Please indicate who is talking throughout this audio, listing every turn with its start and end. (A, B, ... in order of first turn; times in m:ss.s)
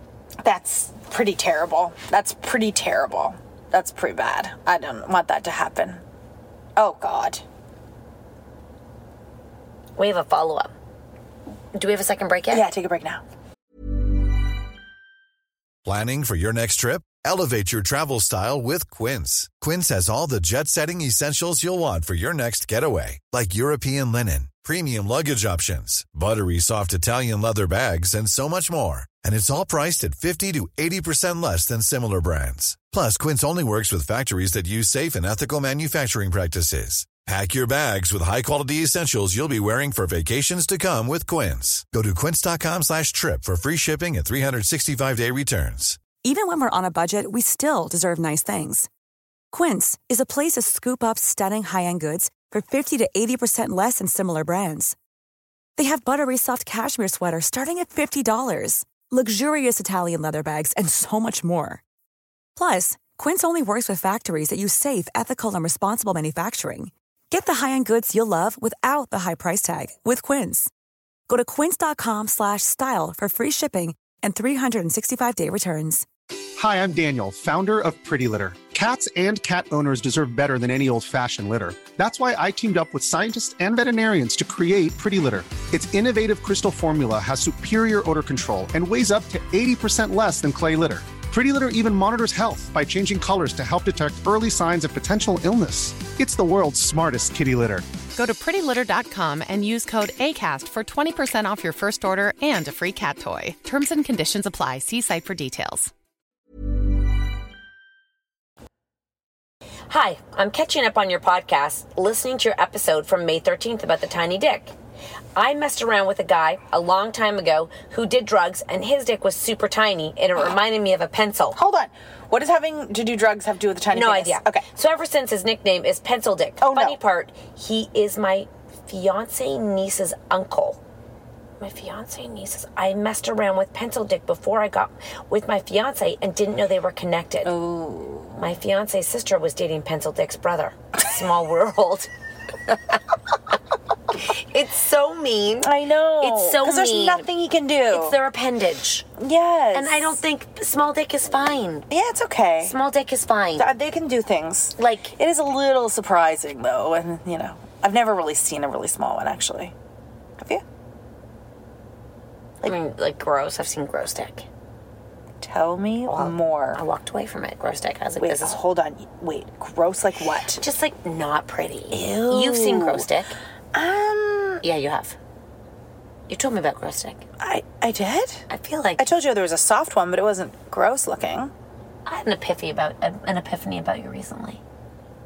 0:00.4-0:06.0 A
0:06.8-0:07.4 A
0:10.0-0:10.7 B
0:11.8-0:12.7 B
0:12.5-0:13.2 A
0:15.8-0:46.0 C
0:46.2-0:48.9 D
0:49.5-0:55.0 D
0:55.8-1:01.8 D
1:02.6-1:10.7 D
1:11.3-1:16.0 D
1:16.6-1:37.8 E
1:38.2-1:45.9 F
1:49.9-1:54.7 B
1:55.4-2:01.6 B
2:01.6-2:04.6 A
2:03.9-2:10.8 B
2:06.6-2:07.0 A
2:11.6-2:17.5 B
2:17.5-2:18.4 A
2:18.4-2:22.1 B
2:22.7-2:23.0 B
2:24.1-2:27.3 B
2:25.6-2:28.2 A
2:27.9-2:29.1 B
2:29.2-2:30.2 A
2:29.7-2:31.9 B
2:31.9-2:32.8 A
2:32.6-2:33.7 B
2:33.6-2:39.7 A
2:34.8-2:35.2 B
2:42.6-2:44.5 B
2:45.4-2:46.8 A
2:46.1-2:48.6 B
2:48.2-2:50.6 A
2:50.6-2:53.3 B
2:51.9-2:53.0 A
2:53.7-2:54.6 A
2:54.6-2:55.2 B
2:56.3-2:57.2 B
2:57.4-2:58.4 A
2:58.5-2:59.1 B
2:59.0-3:01.5 A
3:02.1-3:04.6 B